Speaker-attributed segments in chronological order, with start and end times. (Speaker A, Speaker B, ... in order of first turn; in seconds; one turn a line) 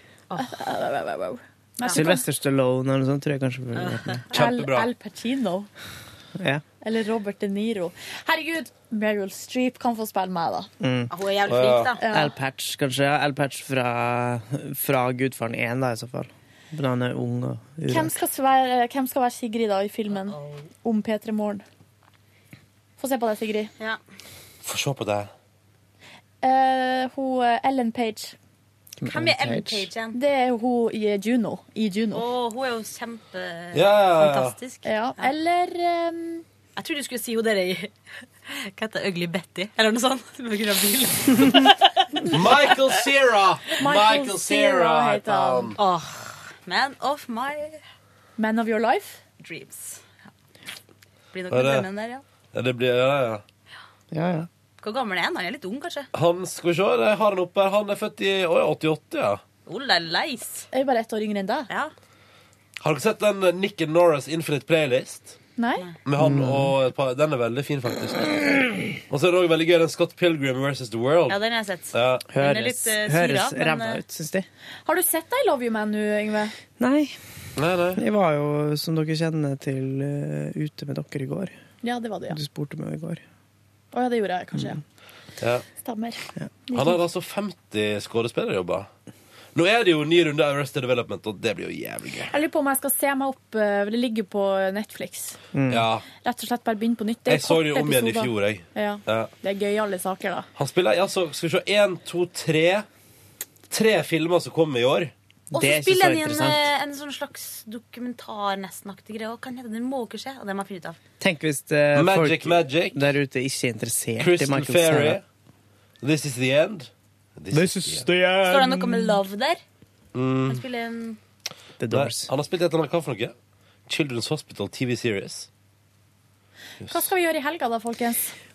Speaker A: 0.3-2.2
Speaker B: 1.9-4.2
Speaker C: 3.8-4.2
Speaker D: 4.3-4.9
Speaker A: 4.3-5.7
Speaker B: 6.4-6.6
Speaker A: 6.8-10.7
Speaker B: 10.8-11.1
Speaker C: 11.1-12.1
Speaker D: 11.5-11.9
Speaker A: 12.0-12.3
Speaker B: 12.1-18.1
Speaker A: 17.9-21.6
Speaker C: 20.1-20.7
Speaker A: 23.0-23.7
Speaker D: 24.6-25.3
Speaker A: 26.4-28.3
Speaker B: 29.0-29.9
Speaker C: 29.1-30.2
Speaker A: 30.1-32.3
Speaker C: 32.1-35.3
Speaker D: 33.7-34.5
Speaker A: 34.8-36.4
Speaker C: 36.8-37.9
Speaker C: 38.5-42.6
Speaker D: 42.3-45.8
Speaker A: 43.8-45.8
Speaker C: 45.8-47.8
Speaker A: 48.4-49.2
Speaker C: 49.4-50.0
Speaker C: 51.3-52.2
Speaker D: 51.5-51.9
Speaker D: 52.5-53.4
Speaker B: 54.1-54.5
Speaker C: 54.8-56.1
Speaker D: 56.1-59.4
Speaker C: 59.6-60.7
Speaker A: 60.7-61.7
Speaker D: 62.8-65.3
Speaker A: 65.6-65.9
Speaker D: 66.0-68.5
Speaker B: 66.2-66.7
Speaker D: 69.1-71.4
Speaker C: 71.3-74.0
Speaker D: 71.9-72.2
Speaker B: 72.3-74.5
Speaker A: 74.8-76.5
Speaker B: 76.8-77.1
Speaker D: 77.6-78.0
Speaker B: 78.0-81.5
Speaker A: 81.8-82.4
Speaker B: 82.3-83.2
Speaker A: 83.9-84.8
Speaker A: 85.8-87.0
Speaker D: 86.7-88.9
Speaker D: 89.5-92.3
Speaker A: 92.3-95.4
Speaker B: 95.5-95.8
Speaker D: 95.7-96.0
Speaker A: 96.2-100.5
Speaker D: 97.3-99.3
Speaker D: 100.5-102.8
Speaker D: 103.7-105.1
Speaker B: 105.5-106.7
Speaker C: 105.5-111.0
Speaker B: 111.2-115.2
Speaker D: 111.9-113.0
Speaker D: 114.2-115.2
Speaker D: 116.0-118.1
Speaker B: 117.5-119.2
Speaker C: 118.5-119.6
Speaker D: 120.1-120.6
Speaker C: 120.5-121.2
Speaker B: 121.8-122.3
Speaker D: 121.9-123.3
Speaker D: 123.9-125.5
Speaker A: 126.9-128.3